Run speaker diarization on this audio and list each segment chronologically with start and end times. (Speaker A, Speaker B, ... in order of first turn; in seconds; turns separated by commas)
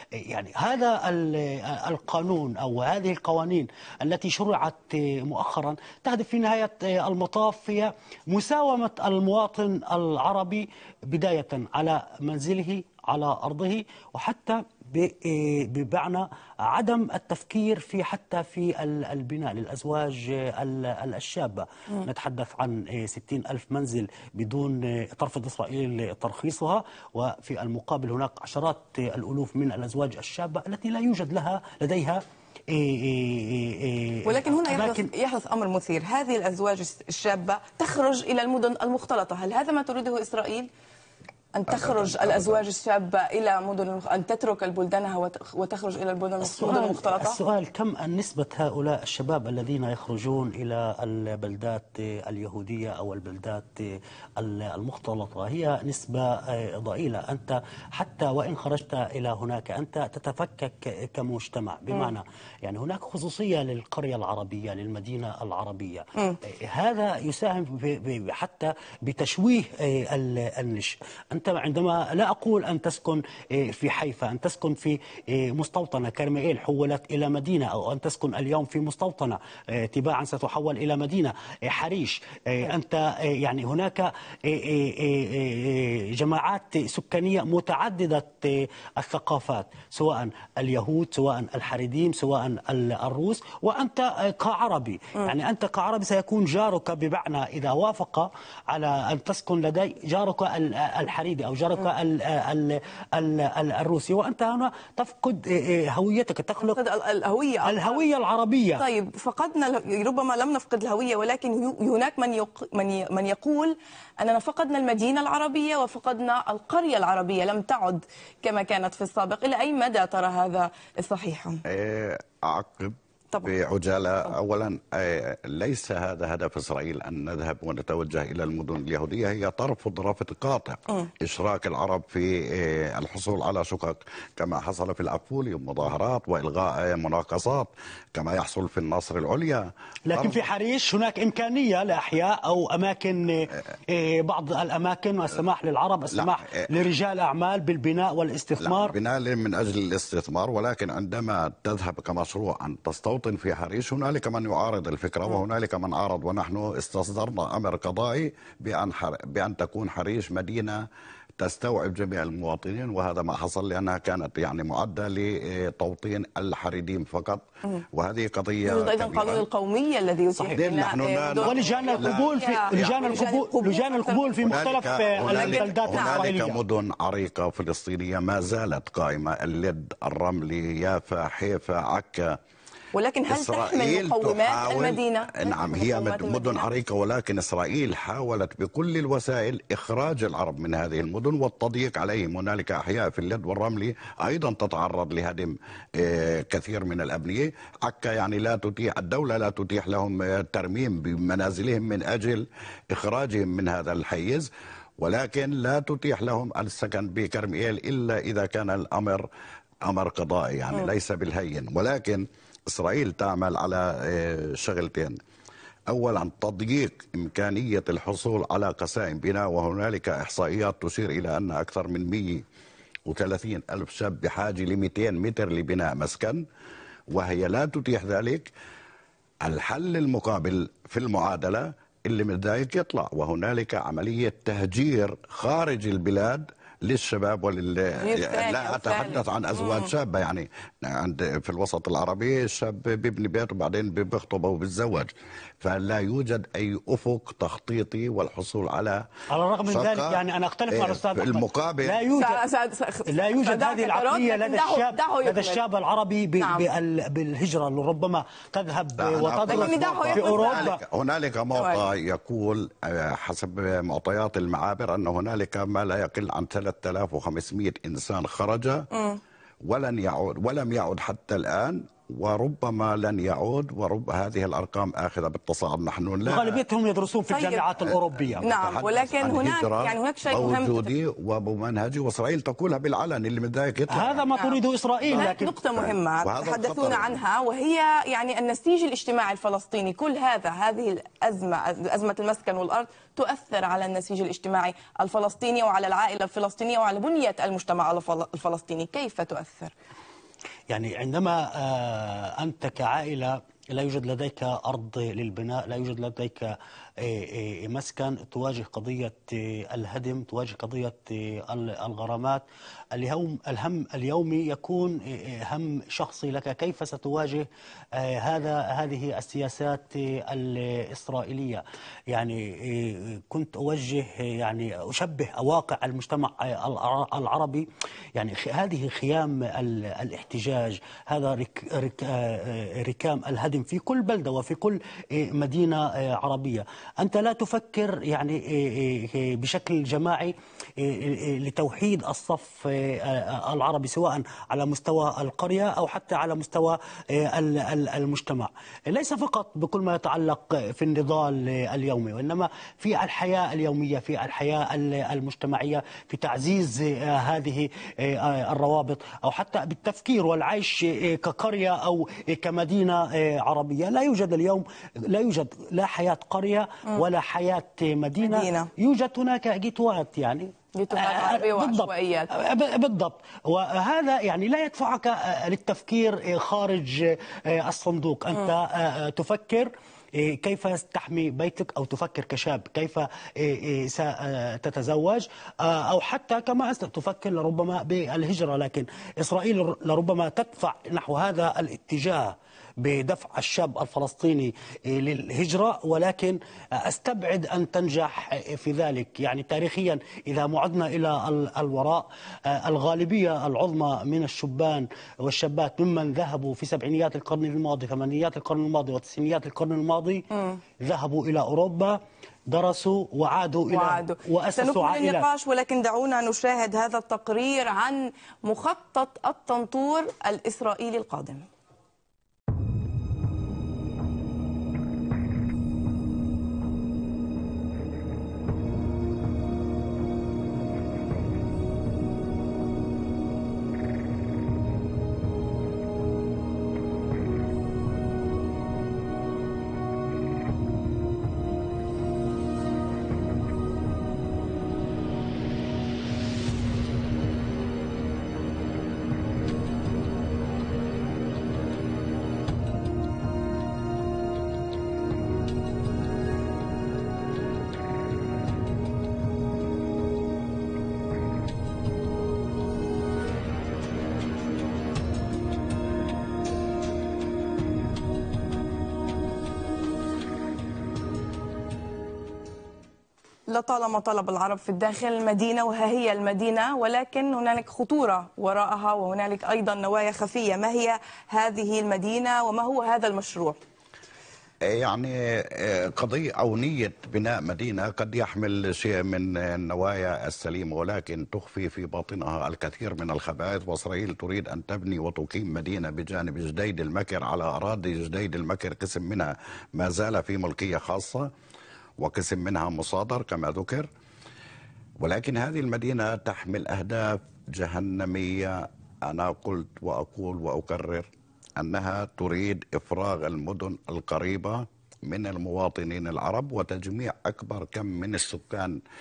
Speaker A: 0.2-35.1, Speaker B: 34.2-40.7, Speaker B: 41.5-47.4, Speaker C: 41.7-42.6, Speaker A: 46.4-106.8, Speaker B: 106.6-108.0, Speaker A: 107.6-108.8, Speaker B: 108.8-121.6, Speaker C: 121.6-140.4, Speaker A: 140.1-148.9, Speaker C: 146.1-146.7, Speaker C: 148.6-160.9, Speaker C: 161.4-169.4, Speaker B: 168.6-176.2, Speaker C: 170.4-173.2, Speaker A: 171.4-176.6, Speaker C: 174.4-182.4, Speaker B: 182.9-186.7, Speaker C: 183.3-209.2, Speaker C: 209.8-215.2, Speaker C: 215.9-222.4, Speaker C: 223.1-226.4, Speaker C: 227.1-228.5, Speaker C: 229.4-249.1, Speaker B: 238.0-239.9, Speaker A: 249.3-252.4, Speaker C: 249.7-252.0, Speaker B: 252.1-255.6, Speaker A: 253.1-260.8, Speaker B: 256.4-256.6, Speaker C: 259.0-268.9, Speaker B: 259.4-260.7, Speaker B: 261.6-261.8, Speaker B: 268.9-269.2, Speaker C: 269.6-276.6, Speaker A: 276.2-278.4, Speaker B: 277.3-277.8, Speaker C: 277.8-284.2, Speaker B: 278.4-280.9, Speaker A: 283.9-285.5, Speaker B: 285.1-299.7, Speaker C: 285.7-287.2, Speaker A: 300.7-410.3, Speaker B: 368.2-368.7, Speaker B: 370.7-372.3, Speaker B: 410.3-410.6, Speaker A: 410.8-415.3, Speaker B: 413.7-421.5, Speaker B: 473.5-483.6, Speaker C: 484.6-501.3, Speaker C: 502.0-503.9, Speaker C: 505.0-518.8